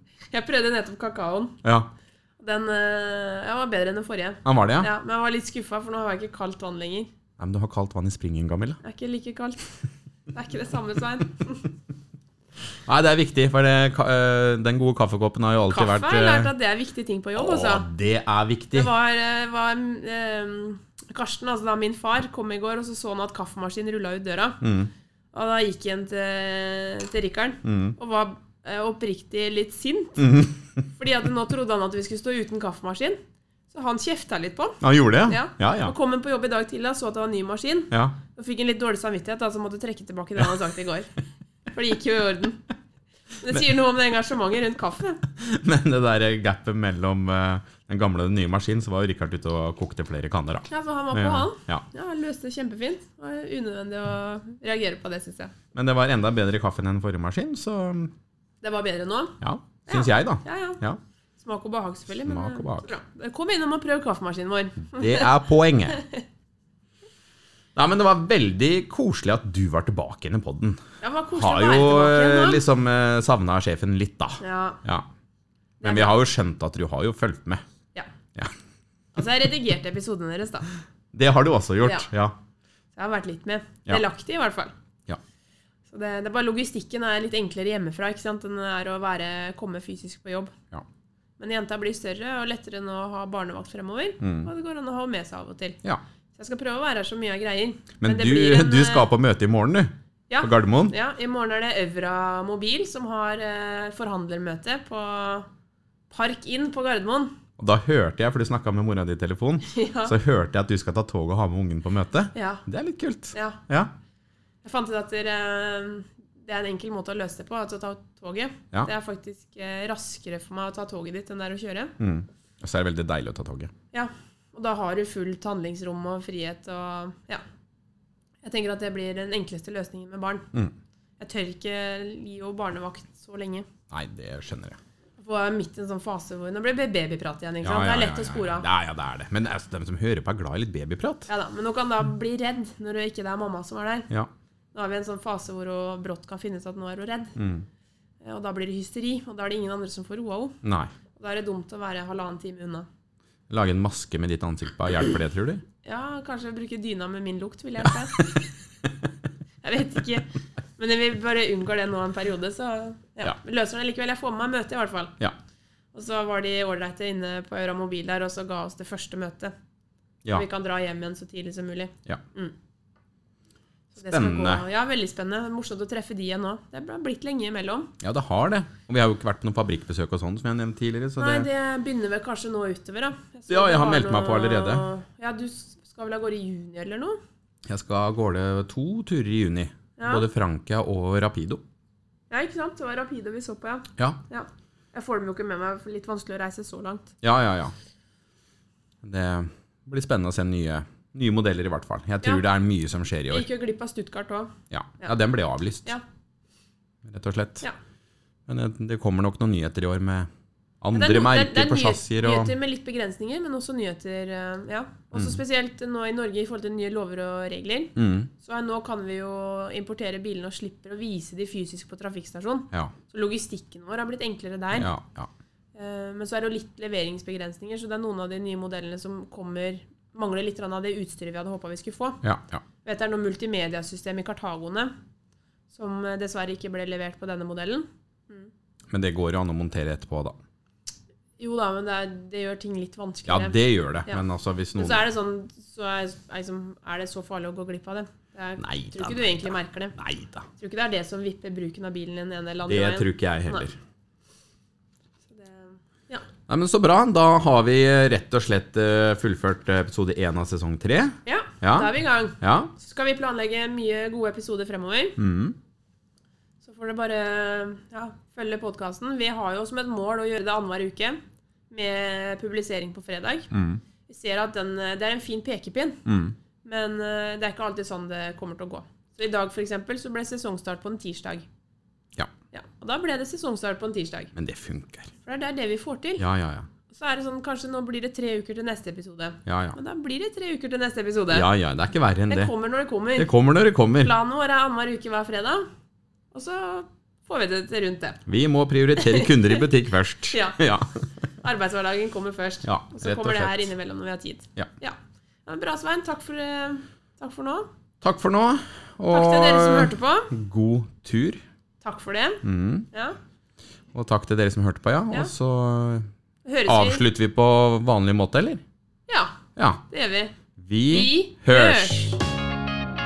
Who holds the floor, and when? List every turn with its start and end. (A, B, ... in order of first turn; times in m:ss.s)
0:00.3-0:01.6 A
0:01.6-0:01.9 B
0:02.4-0:07.1 A
0:04.4-0:04.9 B
0:07.4-0:08.8 B
0:08.8-0:09.7 A
0:10.3-0:11.7 A
0:12.9-0:16.5 B
0:15.7-0:17.9 A
0:17.4-0:18.9 B
0:18.7-0:24.6 A
0:24.6-0:24.9 B
0:25.3-0:30.3 A
0:27.6-0:28.0 B
0:30.2-0:30.8 B
0:31.0-0:33.2 A
0:33.7-0:41.1 A
0:34.8-0:35.9 B
0:37.9-0:38.2 B
0:41.7-0:42.6 A
0:43.4-0:45.2 A
0:45.3-0:51.8 B
0:50.7-0:55.5 A
0:55.7-0:58.1 B
0:58.6-1:00.8 A
0:59.4-1:01.0 B
1:01.4-1:05.3 A
1:02.2-1:02.9 B
1:04.8-1:06.0 B
1:05.9-1:06.2 A
1:07.8-1:10.8 B
1:11.0-1:12.6 A
1:11.3-1:15.1 B
1:14.4-1:14.8 A
1:15.8-1:16.2 A
1:15.8-1:17.6 B
1:19.1-1:20.7 A
1:21.1-1:22.4 B
1:21.8-1:22.1 A
1:22.9-1:24.7 A
1:25.9-1:30.6 A
1:31.4-1:35.8 A
1:34.2-1:34.5 B
1:36.4-1:39.1 A
1:38.0-1:41.0 B
1:40.3-1:45.5 A
1:46.1-1:47.3 A
1:47.6-1:53.9 B
1:49.7-1:50.2 A
1:52.3-1:52.6 A
1:53.3-1:53.6 A
1:54.6-2:01.9 A
2:02.0-2:03.7 B
2:03.9-2:07.4 A
2:08.4-2:10.5 A
2:11.2-2:13.7 A
2:13.9-2:14.8 B
2:15.2-2:18.7 A
2:17.6-2:21.3 B
2:21.3-2:24.1 A
2:24.7-2:27.3 A
2:27.4-2:27.7 B
2:28.2-2:30.6 A
2:30.6-2:30.9 B
2:31.2-2:32.9 A
2:33.5-2:35.6 B
2:35.8-2:38.3 A
2:39.6-2:40.3 A
2:40.8-2:45.2 A
2:45.9-2:49.5 A
2:50.3-2:52.6 A
2:53.9-2:57.9 A
2:54.1-2:54.6 B
2:58.0-3:01.5 B
3:01.2-3:07.2 A
3:03.5-3:04.9 B
3:07.7-3:11.6 B
3:10.0-3:10.3 A
3:12.3-3:17.1 A
3:17.2-3:17.7 B
3:19.0-3:23.5 B
3:23.3-3:25.1 A
3:24.7-3:25.9 B
3:27.0-3:27.7 B
3:28.5-3:30.3 B
3:30.8-3:32.6 B
3:31.0-3:44.9 A
3:35.1-3:35.4 B
3:38.0-3:38.3 B
3:44.7-3:45.3 B
3:45.8-3:52.2 A
3:52.2-3:52.6 B
3:52.8-3:54.9 A
3:55.7-3:58.5 A
3:58.9-4:00.4 B
4:01.4-4:04.2 A
4:03.3-4:05.0 B
4:04.8-4:10.0 A
4:08.6-4:10.5 B
4:10.5-4:13.7 A
4:12.7-4:13.8 B
4:15.3-4:16.2 A
4:16.5-4:22.7 B
4:21.3-4:25.2 A
4:25.2-4:25.6 B
4:26.6-4:33.5 A
4:33.5-4:33.8 B
4:34.1-4:36.0 A
4:36.1-4:36.4 B
4:36.6-4:41.5 A
4:42.5-4:44.3 A
4:44.4-4:45.1 B
4:45.2-4:46.2 A
4:46.2-4:46.7 B
4:46.9-4:51.5 A
4:49.5-4:49.8 B
4:51.3-4:52.5 B
4:52.3-4:53.3 A
4:53.2-4:54.1 B
4:54.0-4:55.7 A
4:56.3-4:58.2 A
4:58.3-5:01.1 B
4:59.0-4:59.6 A
5:00.3-5:00.6 A
5:01.4-5:07.7 A
5:02.6-5:03.7 B
5:08.0-5:11.4 B
5:09.1-5:10.3 A
5:11.8-5:13.2 A
5:12.4-5:12.9 B
5:13.9-5:16.1 B
5:16.4-5:17.0 A
5:16.7-5:18.6 B
5:19.1-5:19.4 A
5:19.6-5:19.8 B
5:19.9-5:20.4 A
5:20.6-5:22.2 B
5:20.9-5:22.2 A